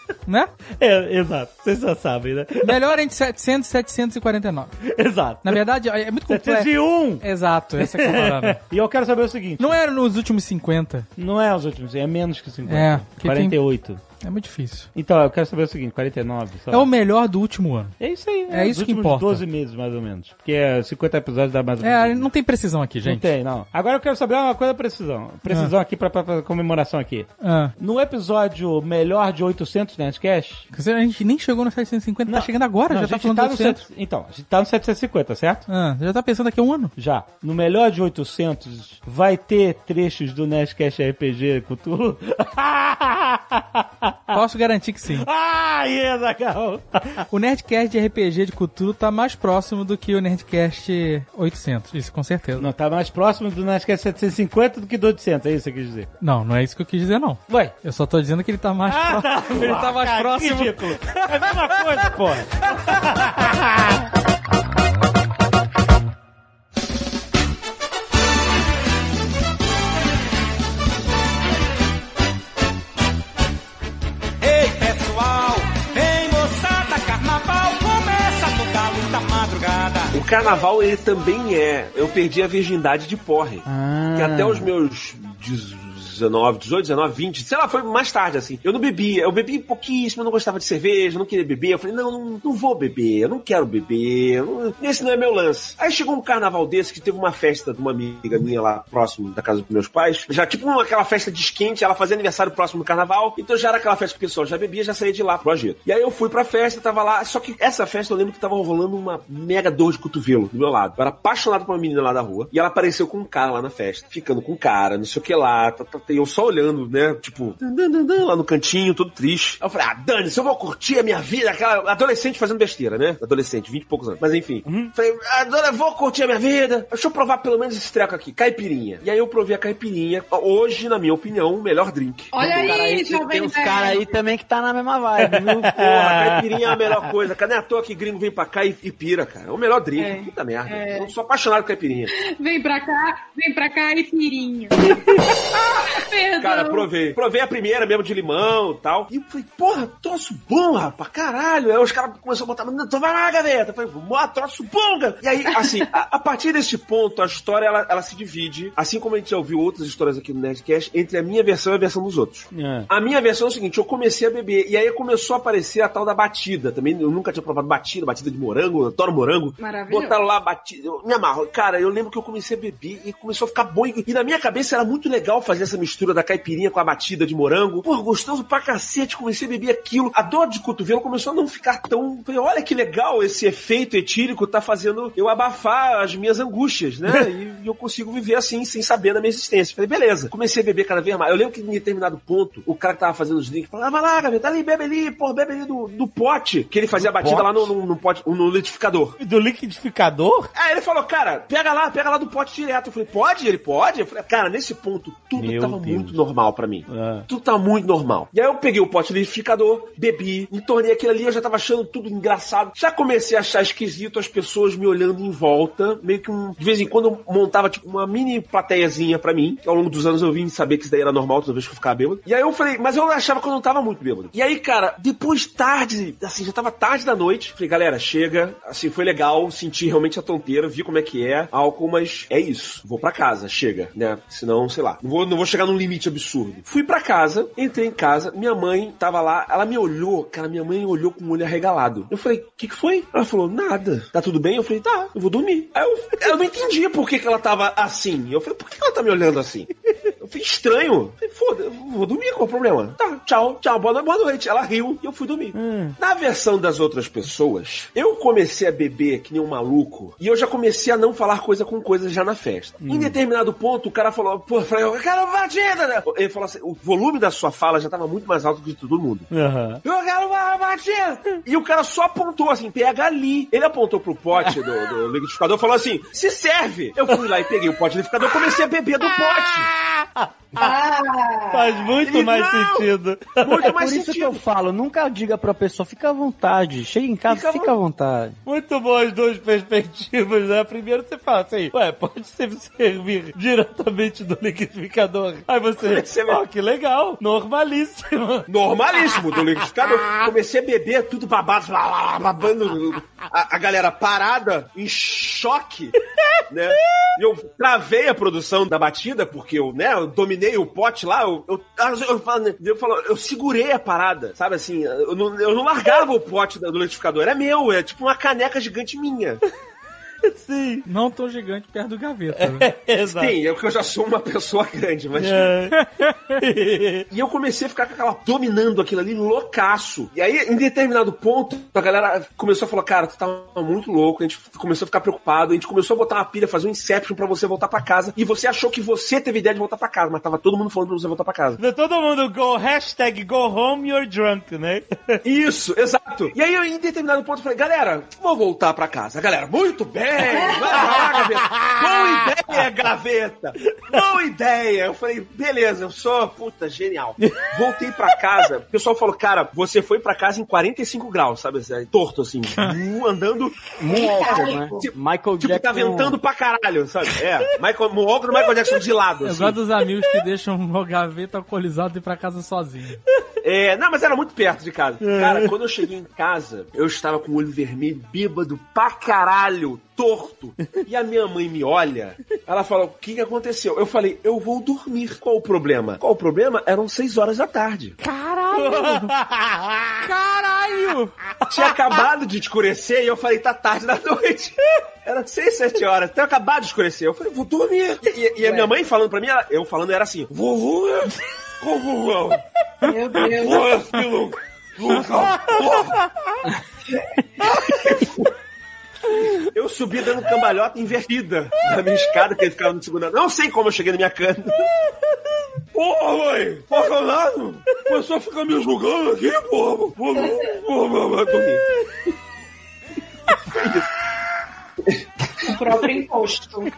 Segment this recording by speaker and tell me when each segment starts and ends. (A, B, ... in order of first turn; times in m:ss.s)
0:00.2-0:00.5 A
0:00.8-0:02.7 B
0:02.6-0:04.7 A
0:04.9-0:05.6 B
0:05.4-0:08.6 A
0:06.3-0:07.2 B
0:07.8-0:09.7 B
0:09.6-0:11.1 A
0:11.2-0:14.0 B
0:12.7-0:13.6 A
0:14.2-0:14.9 A
0:14.9-0:16.9 B
0:16.7-0:18.0 A
0:18.0-0:22.3 B
0:18.5-0:19.4 A
0:21.8-0:23.3 A
0:23.0-0:30.6 B
0:27.4-0:27.7 A
0:30.7-0:33.8 A
0:32.3-0:35.6 B
0:35.7-0:36.9 A
0:37.0-0:44.4 B
0:44.3-0:45.3 A
0:45.2-0:47.2 B
0:47.3-0:52.7 A
0:52.6-0:56.1 B
0:56.2-1:00.9 A
0:58.9-1:03.7 B
1:14.4-1:20.1 C
1:20.1-2:12.5 D
1:23.7-1:24.5 B
2:12.3-2:14.1 E
2:12.6-2:15.8 C
2:15.3-2:16.4 B
2:15.7-2:22.1 D
2:20.0-2:21.1 E
2:22.1-2:25.0 E
2:26.0-2:26.9 E
2:26.4-3:19.2 D
2:35.6-2:35.9 E
2:42.5-2:42.9 B
2:49.6-2:50.2 E
3:17.1-3:17.5 B
3:19.2-3:20.5 B
3:20.5-4:09.7 D
3:25.4-3:26.2 B
3:26.9-3:27.2 B
4:10.2-4:29.2 D
4:15.5-4:16.0 B
4:22.8-4:23.2 B
4:29.3-4:29.8 B
4:29.8-4:39.7 D
4:40.6-4:41.6 E
4:41.5-4:43.7 B
4:42.0-4:42.8 D
4:43.4-4:44.4 D
4:43.6-4:48.4 C
4:47.3-4:47.7 D
4:48.4-4:58.4 B
4:55.8-4:56.4 D
4:58.5-5:05.9 D
5:06.5-5:19.4 D
5:20.2-5:20.8 B
5:20.8-5:22.7 A
5:22.4-5:23.3 B
5:23.2-5:25.5 D
5:25.2-5:25.8 B
5:25.8-5:26.1 A
5:26.4-5:27.1 B
5:27.1-5:41.6 D
5:41.6-5:45.2 B
5:45.2-6:09.6 D
6:03.8-6:06.2 C
6:04.2-6:04.5 E
6:09.2-6:13.0 A
6:13.4-6:28.0 D
6:15.0-6:15.5 B
6:28.0-6:29.1 A
6:28.5-6:29.7 B
6:30.0-6:31.1 A
6:31.5-6:34.5 D
6:35.0-6:42.4 D
6:42.8-6:43.7 E
6:43.2-6:45.9 D
6:47.4-6:48.1 D
6:49.5-6:54.6 D
6:55.7-7:01.6 D
7:05.5-7:05.9 D
7:05.7-7:06.6 E